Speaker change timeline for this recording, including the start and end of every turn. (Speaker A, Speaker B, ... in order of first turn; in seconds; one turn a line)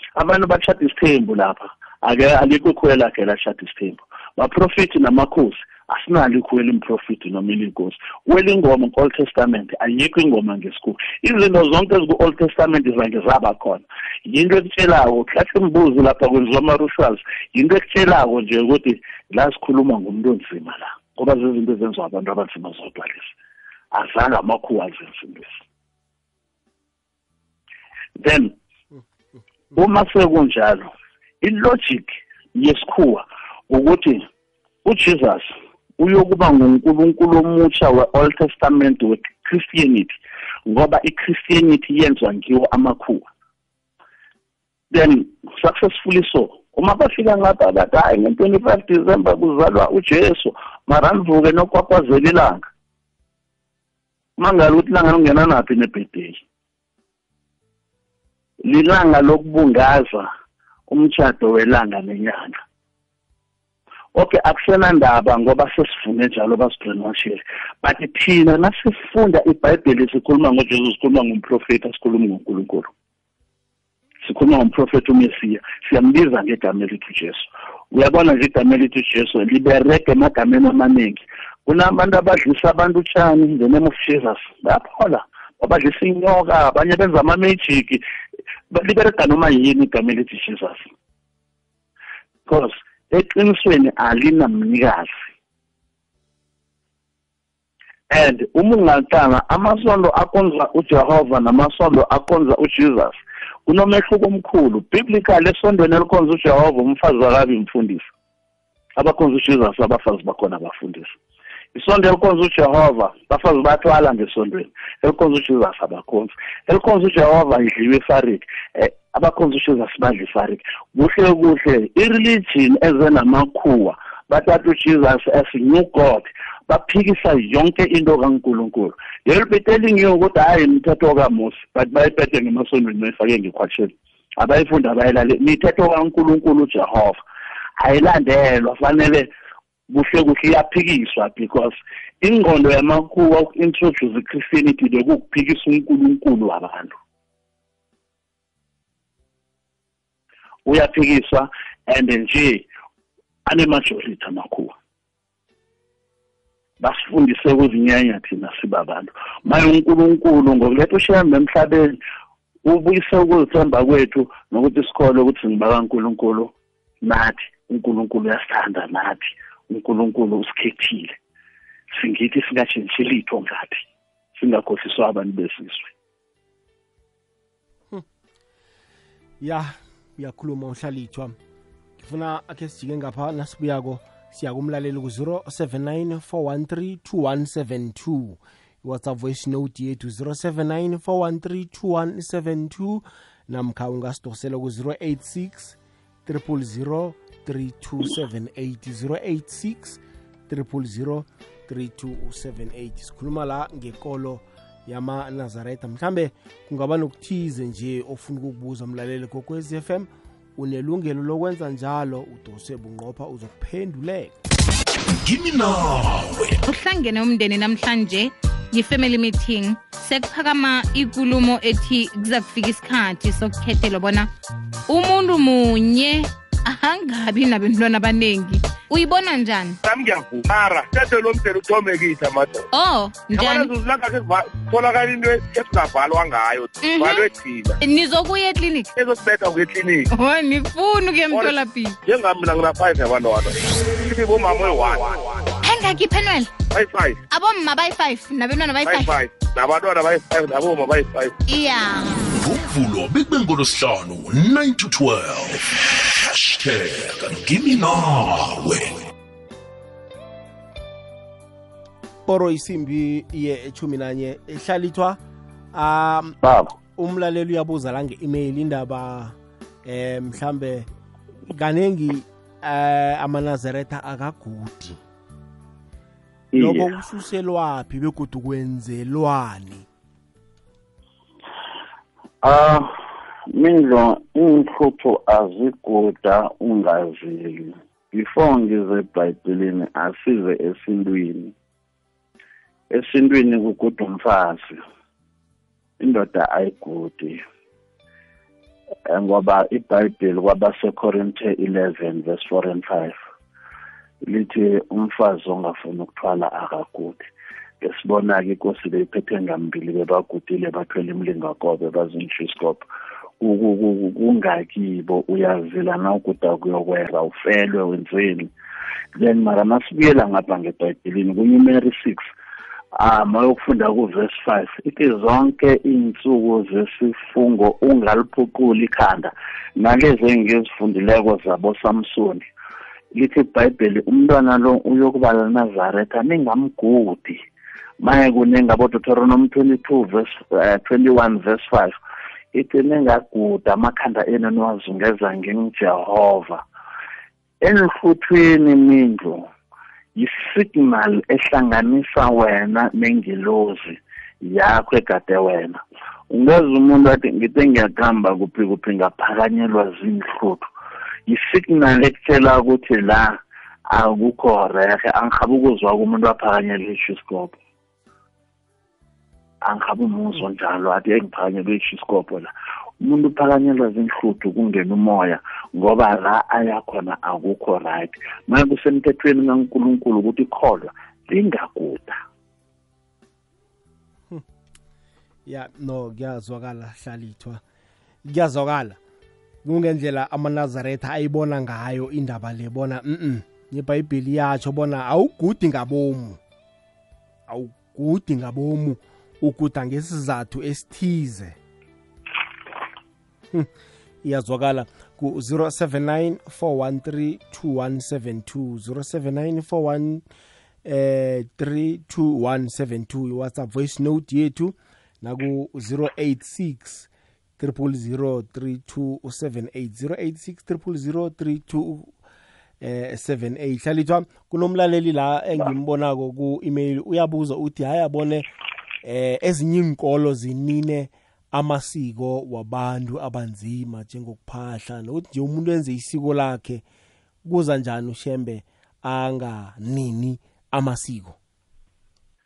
Speaker A: 0.2-23.3
Speaker A: 23.9-25.6
Speaker A: 28.2-28.6
Speaker A: 29.8-34.2
Speaker A: 34.9-43.3
Speaker A: 44.9-52.6
Speaker A: 54.4-56.4
Speaker A: 58.6-60.3
Speaker A: 60.9-62.6
Speaker A: 64.2-72.9
Speaker A: 74.2-88.0
Speaker A: 88.7-90.9
Speaker A: 92.5-95.1
Speaker A: 98.1-108.1
Speaker A: 109.0-111.1
Speaker A: 111.7-137.2
Speaker A: 137.8-139.3
Speaker A: 139.9-147.0
Speaker A: 150.7-152.7
Speaker A: 153.5-154.7
Speaker A: 156.8-162.0
Speaker A: 162.7-171.2
Speaker A: 171.9-175.9
Speaker B: 179.4-181.4
Speaker B: 182.0-214.3
Speaker C: 215.1-216.6
Speaker D: 216.7-224.3
Speaker D: 224.9-229.8
Speaker E: 229.8-232.7
Speaker D: 232.7-233.7
Speaker E: 233.3-237.8
Speaker D: 236.8-237.3
Speaker D: 237.8-238.9
Speaker E: 239.0-240.1
Speaker D: 240.1-242.0
Speaker E: 242.0-245.5
Speaker D: 245.6-246.5
Speaker E: 246.7-247.2
Speaker D: 247.3-249.2
Speaker E: 248.8-251.3
Speaker D: 251.5-252.2
Speaker C: 252.3-259.0
Speaker B: 262.3-265.2
Speaker B: 265.7-266.4
Speaker A: 266.4-266.7
Speaker B: 267.0-270.9
Speaker B: 271.5-275.0
Speaker A: 276.5-276.9
Speaker B: 276.6-279.9
Speaker A: 282.4-282.9
Speaker A: 283.5-291.6
Speaker A: 292.9-294.8
Speaker A: 296.0-297.4
Speaker A: 299.1-303.2
Speaker A: 304.2-307.3
Speaker A: 307.8-312.9
Speaker A: 313.4-318.5
Speaker A: 319.2-322.2
Speaker A: 322.9-332.5
Speaker A: 333.1-337.4
Speaker A: 338.0-342.0
Speaker A: 342.5-346.6
Speaker A: 347.6-349.5
Speaker A: 350.2-360.7
Speaker A: 361.3-363.4
Speaker A: 363.9-367.6
Speaker A: 369.6-382.2
Speaker B: 385.5-387.6
Speaker B: 388.2-389.0
Speaker B: 389.6-396.4
Speaker B: 397.5-401.6
Speaker B: 404.2-410.2
Speaker B: 410.9-417.1
Speaker B: 417.6-422.1
Speaker B: 422.8-428.5
Speaker B: 429.0-436.8
Speaker B: 437.4-441.4